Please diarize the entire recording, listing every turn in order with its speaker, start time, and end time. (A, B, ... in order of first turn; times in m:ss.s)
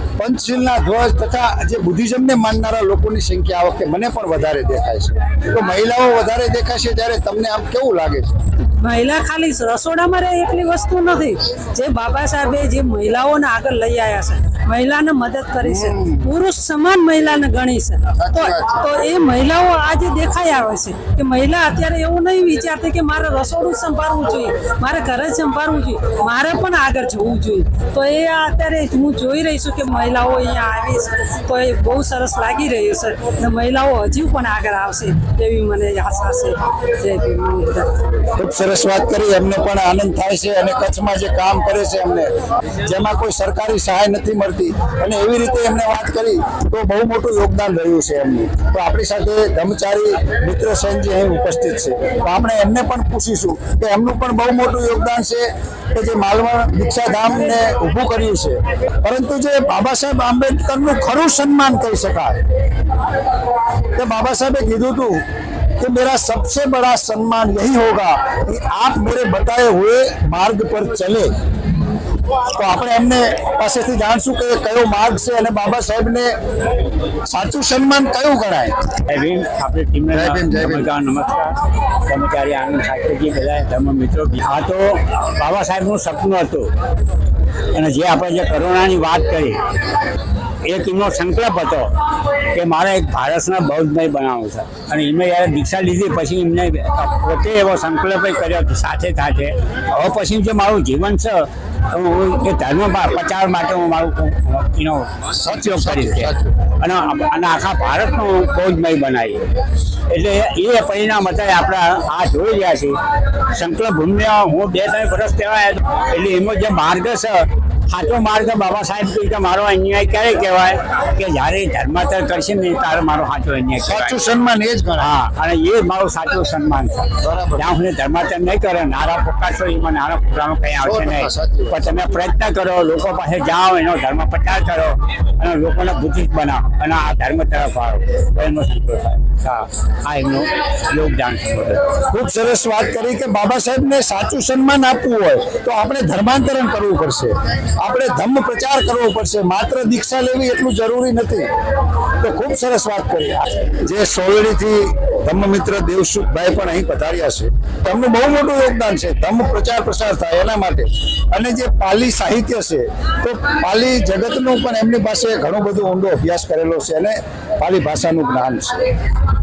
0:00.2-0:08.5 A
0:08.8-0:38.0 B
0:15.6-0:16.3 A
0:18.2-0:18.8 A
0:38.4-0:42.3 A
0:42.8-1:02.4 A
1:03.9-1:05.2 A
1:05.8-1:11.3 A
1:12.5-1:16.3 A
1:17.3-1:18.9 A
1:19.1-1:26.7 C
1:20.1-1:20.9 A
1:27.7-1:29.6 C
1:30.6-1:31.9 C
1:32.5-1:49.5 C
1:45.4-1:46.5 A
1:50.1-1:53.0 C
1:53.5-2:04.1 C
2:03.8-2:05.1 A
2:05.0-2:21.9 C
2:07.2-2:07.7 A
2:10.8-2:11.9 A
2:22.0-2:31.5 A
2:32.2-2:48.9 A